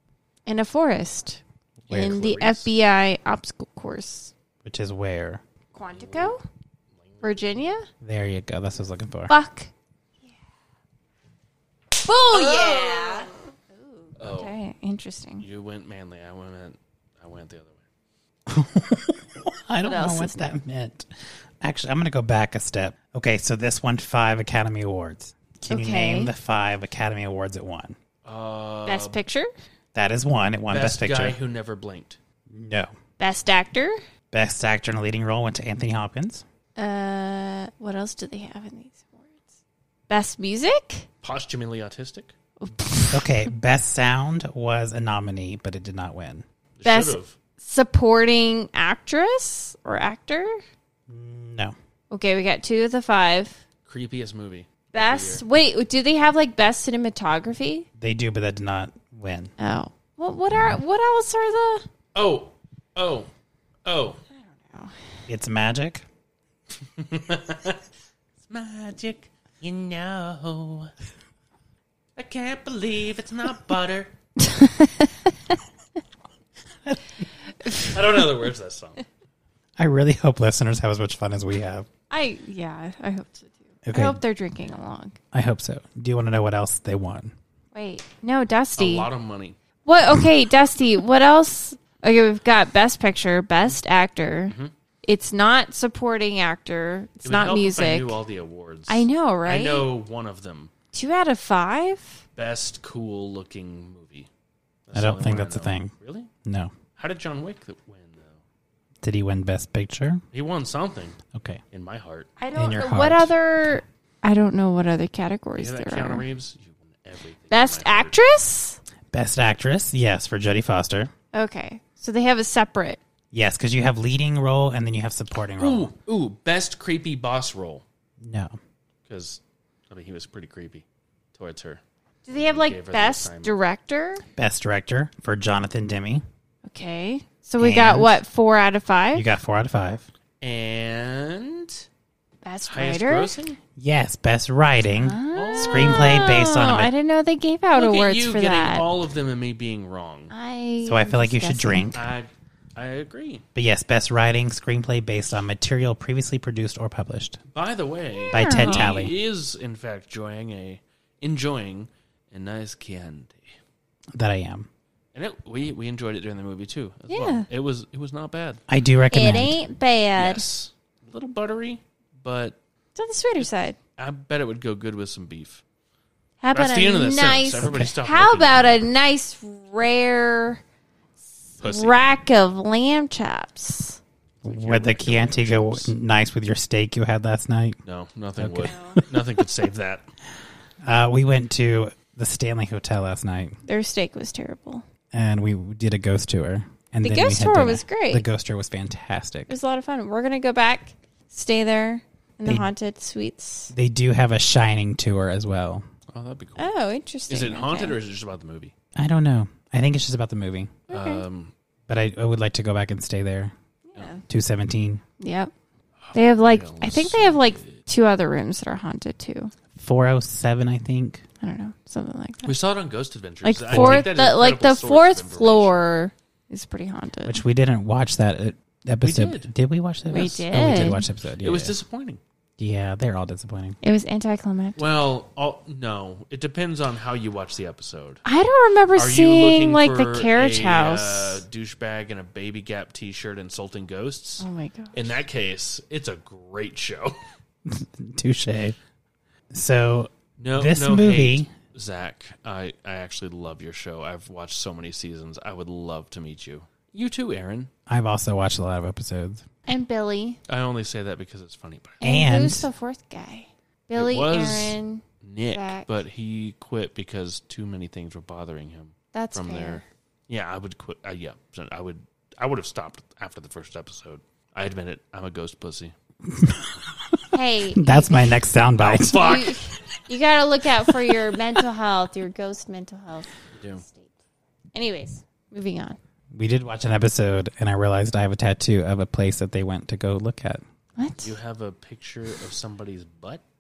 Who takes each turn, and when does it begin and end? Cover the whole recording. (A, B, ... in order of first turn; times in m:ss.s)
0:00.5-0:04.3 A
0:01.9-0:02.2 B
0:01.9-0:02.7 C
0:04.6-0:05.4 B
0:05.7-0:06.4 A
0:05.9-0:06.4 C
0:07.0-0:07.4 C
0:07.2-0:07.9 A
0:08.0-0:09.3 B
0:09.3-0:09.7 A
0:11.9-0:15.4 A
0:12.3-0:13.3 C
0:14.2-0:14.6 C
0:15.4-0:17.8 C
0:18.5-0:21.1 B
0:19.8-0:20.5 A
0:21.6-0:28.0 B
0:25.6-0:26.3 A
0:28.2-0:29.2 C
0:28.9-0:29.5 A
0:29.9-0:31.4 B
0:30.7-0:32.2 C
0:32.5-0:32.9 B
0:33.2-0:34.0 A
0:34.3-0:36.4 B
0:36.8-0:39.4 A
0:40.1-0:41.1 A
0:41.2-0:42.4 C
0:42.6-0:43.3 A
0:43.1-0:46.4 B
0:46.8-0:47.3 C
0:46.8-0:50.6 A
0:51.1-0:51.8 B
0:52.1-0:53.6 A
0:53.9-0:55.4 C
0:54.9-0:57.9 A
0:58.0-0:59.5 B
0:59.6-1:01.9 A
1:02.2-1:03.3 C
1:03.9-1:04.2 C
1:04.4-1:05.0 A
1:05.3-1:06.1 B
1:07.0-1:07.8 C
1:08.5-1:10.9 C
1:12.2-1:14.1 C
1:14.4-1:15.1 A
1:17.8-1:19.0 C
1:19.8-1:21.9 B
1:22.1-1:25.2 A
1:23.8-1:24.2 B
1:25.3-1:27.3 B
1:27.7-1:29.1 A
1:28.8-1:29.6 C
1:29.9-1:38.2 A
1:34.5-1:34.7 C
1:37.2-1:40.7 C
1:38.9-1:39.9 A
1:40.9-1:42.2 A
1:42.4-1:44.3 C
1:44.9-1:46.3 C
1:44.9-1:45.9 B
1:46.4-1:46.7 B
1:47.0-1:48.4 C
1:49.0-1:50.2 B
1:50.3-1:51.2 C
1:51.3-1:51.6 B
1:51.7-1:52.3 C
1:52.4-1:56.2 A
1:52.5-1:53.3 B
1:55.6-1:58.2 C
1:57.5-1:58.8 A
1:59.1-2:01.1 B
2:01.3-2:03.0 A
2:03.3-2:05.9 B
2:05.6-2:07.8 C
2:08.2-2:08.6 B
2:09.1-2:13.5 C
2:12.3-2:14.2 A
2:14.4-2:16.2 B
2:16.6-2:19.3 A
2:17.6-2:18.2 B
2:19.1-2:20.1 B
2:20.4-2:21.9 C
2:22.4-2:23.4 A
2:22.7-2:23.6 C
2:23.8-2:26.9 B
2:25.0-2:28.8 A
2:25.3-2:26.4 C
2:27.8-2:30.3 C
2:30.3-2:31.9 A
2:30.8-2:32.1 B
2:31.9-2:33.4 C
2:33.6-2:37.4 B
2:37.5-2:43.5 C
2:38.3-2:39.1 B
2:38.3-2:38.9 A
2:44.1-2:44.7 B
2:45.1-2:48.6 C
2:47.1-2:47.5 A
2:48.7-2:49.6 B
2:49.1-2:50.4 A
2:50.2-2:52.6 C
2:53.0-2:53.8 A
2:54.0-2:55.6 C
2:56.4-3:00.6 A
2:56.5-2:58.9 C
2:57.6-2:57.9 B
3:01.6-3:02.0 C
3:01.6-3:04.0 A
3:04.4-3:07.8 B
3:04.4-3:05.9 C
3:07.9-3:10.1 C
3:08.4-3:09.1 B
3:08.6-3:09.0 A
3:10.8-3:13.6 B
3:13.6-3:14.8 A
3:15.1-3:19.5 B
3:17.0-3:18.3 A
3:19.5-3:23.7 A
3:23.7-3:25.8 B
3:26.1-3:26.7 C
3:26.6-3:28.0 A
3:27.3-3:28.7 C
3:29.0-3:30.8 B
3:30.9-3:31.2 A
3:30.9-3:31.5 C
3:31.9-3:33.5 B
3:33.9-3:34.2 A
3:34.3-3:35.0 B
3:35.2-3:35.5 A
3:36.0-3:37.8 C
3:36.1-3:39.5 A
3:39.8-3:41.2 B
3:41.4-3:42.6 A
3:42.4-3:45.8 C
3:43.4-3:47.4 A
3:43.7-3:44.1 B
3:47.2-3:51.8 B
3:49.0-3:49.5 C
3:50.1-3:51.0 A
3:50.1-3:52.2 C
3:52.6-3:53.8 B
3:53.8-3:54.8 A
3:54.8-3:58.2 C
3:58.2-4:01.4 A
3:59.0-4:07.2 C
4:04.4-4:05.2 A
4:07.7-4:08.8 B
4:09.5-4:11.5 B
4:10.4-4:17.7 C
4:17.9-4:19.4 B
4:19.7-4:20.4 A
4:20.5-4:22.0 C
4:22.0-4:25.9 A
4:22.0-4:22.7 B
4:23.9-4:35.9 C
4:29.1-4:29.8 A
4:36.3-4:39.4 B
4:37.3-4:38.4 A
4:38.8-4:39.6 C
4:39.2-4:44.1 A
4:43.6-4:43.8 C
4:44.7-4:46.0 A
4:46.3-4:50.6 B
4:51.0-4:51.4 A
4:51.2-4:53.4 C